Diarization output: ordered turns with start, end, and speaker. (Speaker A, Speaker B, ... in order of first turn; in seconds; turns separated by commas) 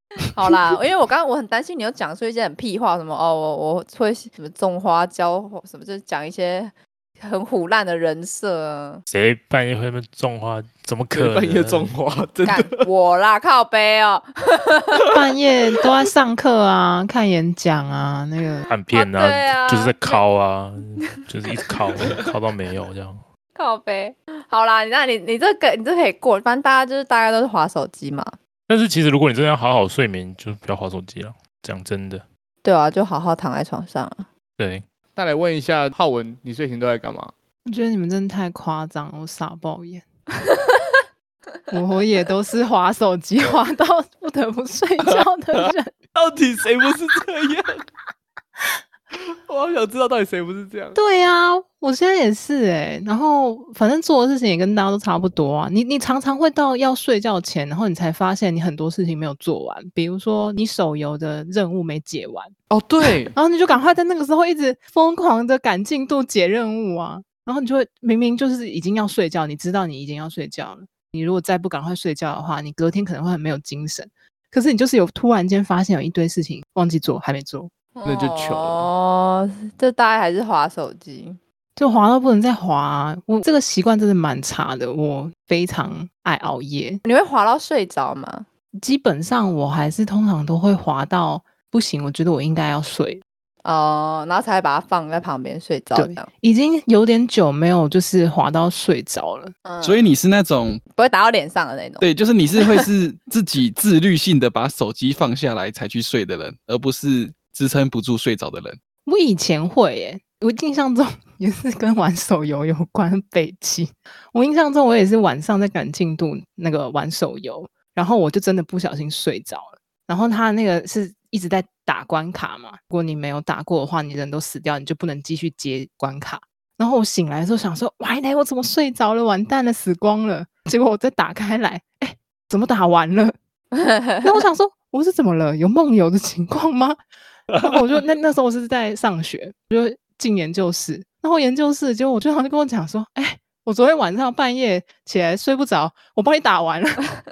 Speaker A: 0.3-9.0, Speaker B: 9.1-11.9, Speaker C: 11.1-12.9, Speaker A: 12.5-15.0, Speaker D: 15.1-18.6, Speaker B: 18.7-23.2, Speaker A: 18.9-20.2, Speaker A: 23.6-28.4, Speaker B: 28.7-32.2, Speaker A: 32.6-34.3, Speaker B: 34.6-34.9, Speaker C: 35.2-37.3, Speaker D: 37.7-40.1, Speaker D: 41.7-45.9, Speaker E: 45.0-45.7, Speaker C: 46.1-47.9, Speaker C: 49.2-51.0, Speaker D: 51.0-62.5, Speaker C: 62.7-63.4, Speaker D: 63.3-77.7, Speaker A: 78.0-81.4, Speaker C: 78.1-78.9, Speaker D: 81.8-87.0, Speaker A: 87.0-88.5, Speaker D: 88.8-93.2, Speaker A: 93.6-96.3, Speaker D: 96.0-99.5, Speaker A: 99.7-100.1, Speaker E: 99.8-100.8, Speaker A: 101.0-102.1, Speaker E: 102.0-108.8, Speaker D: 109.1-133.3, Speaker A: 133.8-134.3, Speaker D: 134.2-137.0, Speaker D: 137.6-147.0